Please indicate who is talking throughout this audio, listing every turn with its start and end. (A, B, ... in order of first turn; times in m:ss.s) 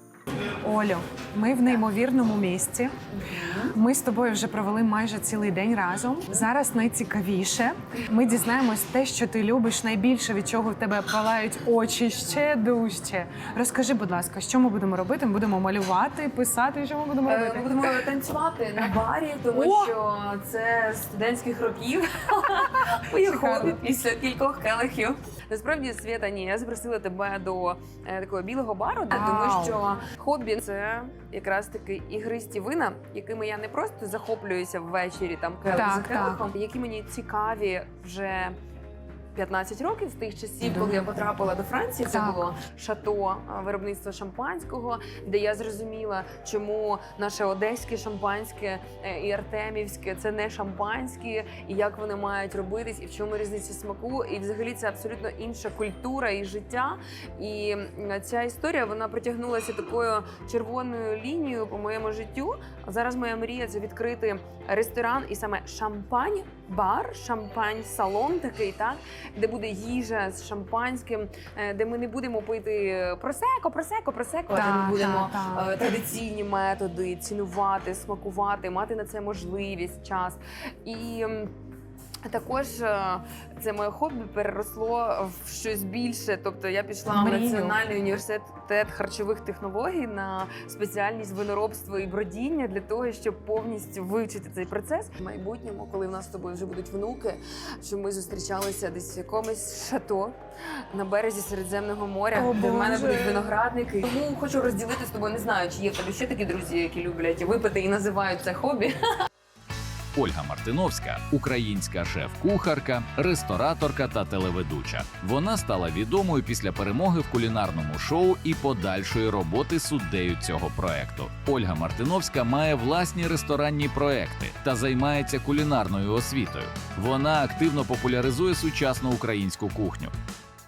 0:00.6-0:02.9 A
0:03.3-0:03.7 B
0:03.7-0:18.0 A
0:17.3-0:38.6 B
0:19.5-0:19.9 A
0:23.2-0:23.8 A
0:29.1-0:29.8 A
0:35.7-0:36.4 A
0:39.4-1:21.5 B
0:42.1-0:42.5 A
1:14.5-1:15.7 A
1:22.3-1:40.4 B
1:27.1-1:27.8 A
1:40.9-1:49.0 B
1:42.3-1:43.5 A
1:50.2-2:10.1 C